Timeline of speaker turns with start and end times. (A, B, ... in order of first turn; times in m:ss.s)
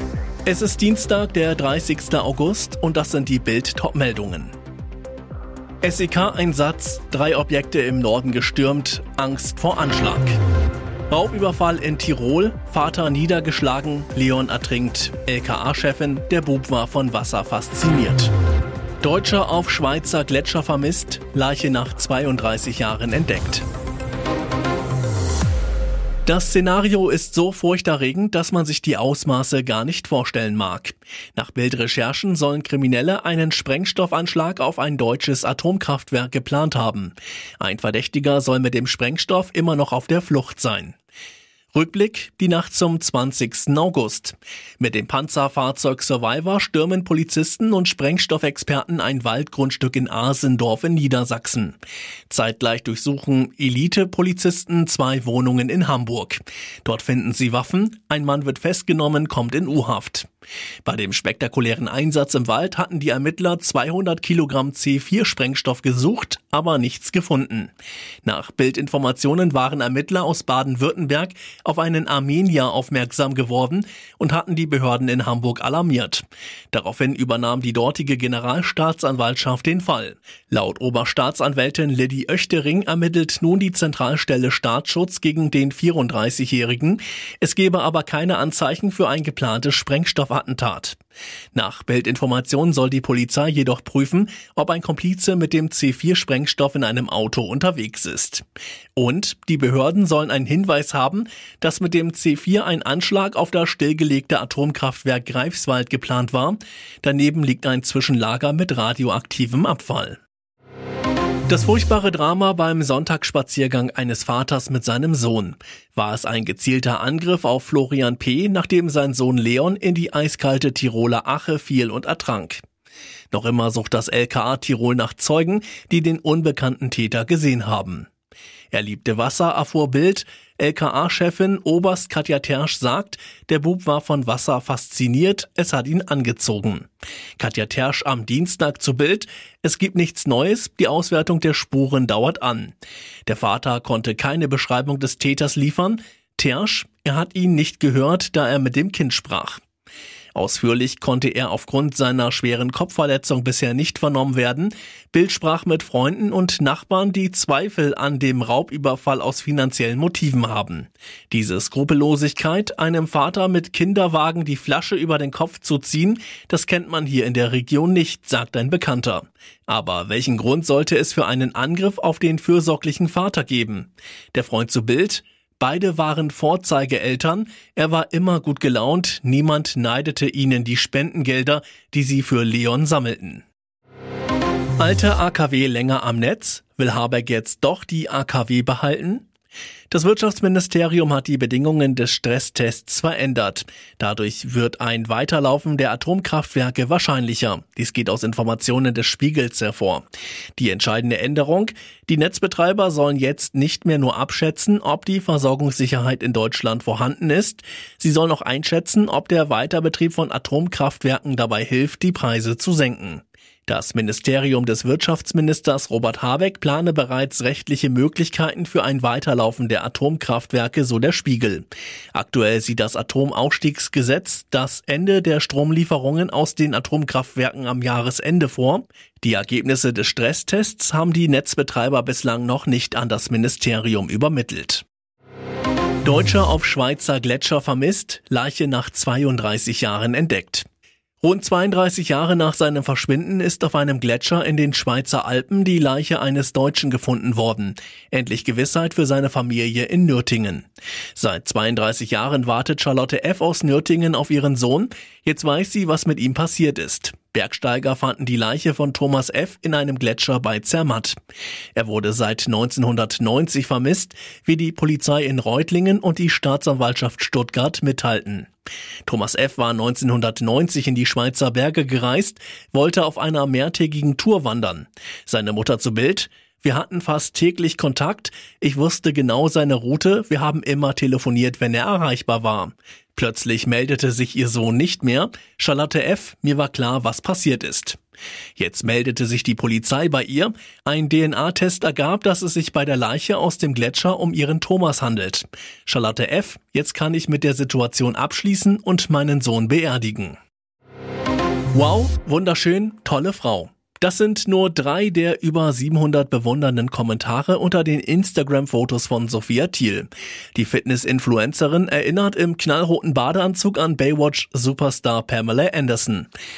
0:00.4-0:04.5 A
0:05.8-0:10.4 A
0:11.1-0:18.3 A
0:19.0-0:23.7 A
0:26.3-0:41.0 A
0:41.7-0:51.8 A
0:52.3-1:00.3 A
1:00.8-1:07.7 A
1:08.2-1:31.0 A
1:31.5-1:38.4 A
1:39.0-1:50.2 A
1:51.5-2:02.6 A
2:03.3-2:08.1 A
2:08.7-2:22.8 A
2:23.3-2:29.6 A
2:30.3-3:03.4 A
3:04.8-3:09.3 A
3:09.9-3:20.1 A
3:20.6-3:54.9 A
3:56.0-4:00.7 A
4:01.2-4:21.2 A
4:21.8-4:28.5 A
4:29.1-4:48.0 A
4:48.6-5:00.4 A
5:01.7-5:16.3 A